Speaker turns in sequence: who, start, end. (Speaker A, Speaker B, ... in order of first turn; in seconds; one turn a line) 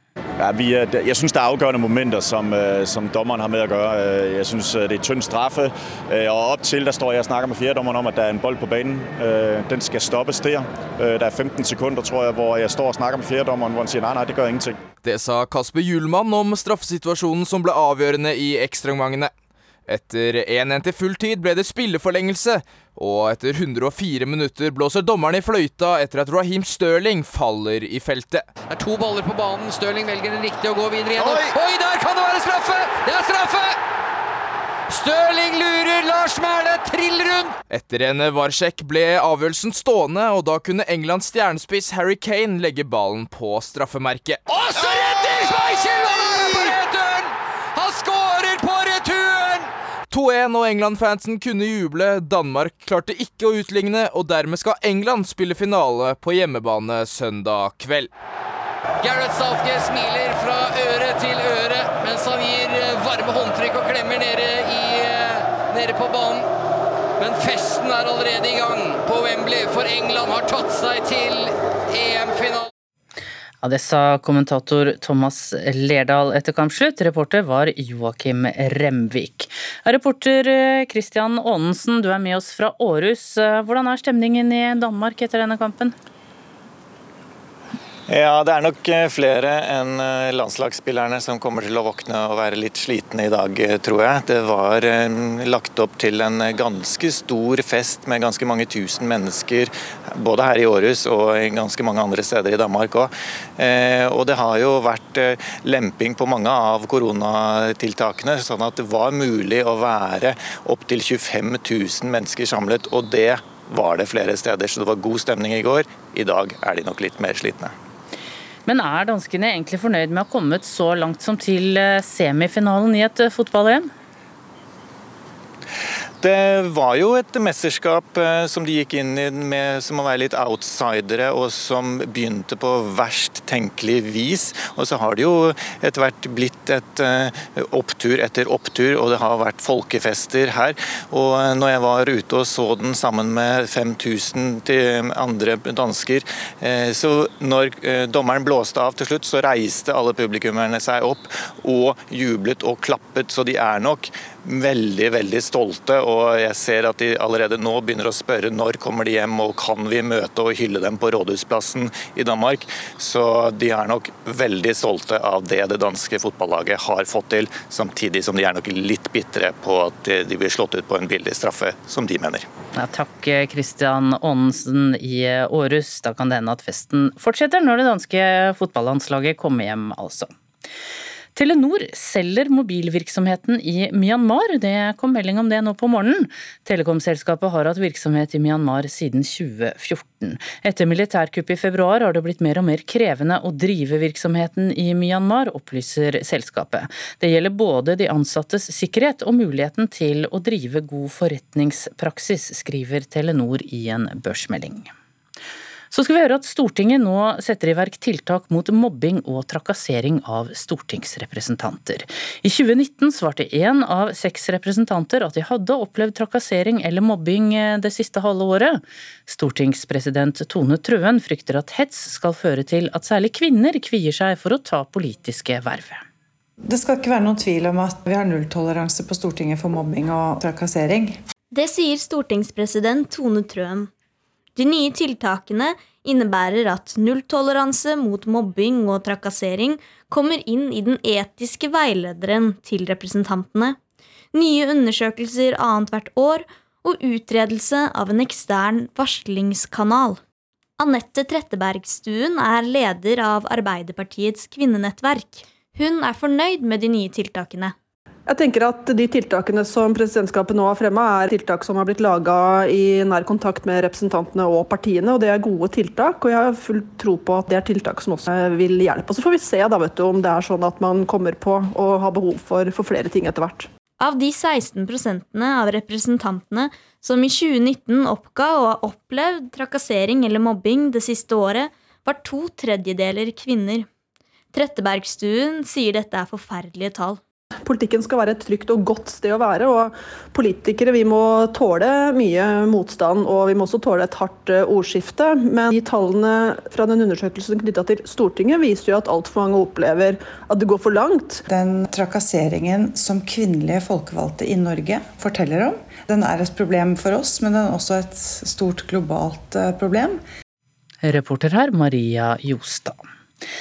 Speaker A: 0.4-14.8
Speaker B: 15.0-19.3
Speaker B: 19.9-28.5
Speaker C: 28.6-33.8
Speaker C: 34.9-37.6
Speaker B: 37.7-44.4
Speaker C: 44.5-49.7
Speaker B: 46.1-46.8
Speaker B: 50.1-58.1
Speaker C: 59.0-66.5
Speaker C: 67.2-72.7
Speaker D: 73.6-85.9
Speaker E: 88.1-117.7
Speaker D: 118.7-123.9
Speaker E: 126.2-172.5
Speaker D: 172.7-180.3
Speaker D: 181.3-204.9
Speaker D: 205.9-226.0
Speaker F: 226.6-231.2
Speaker G: 231.5-233.9
Speaker G: 234.6-243.8
Speaker G: 244.3-250.2
Speaker G: 250.8-257.7
Speaker H: 258.3-273.7
Speaker G: 274.0-283.9
Speaker G: 284.5-287.2
Speaker H: 287.6-301.4
Speaker F: 301.5-310.2
Speaker D: 311.0-313.0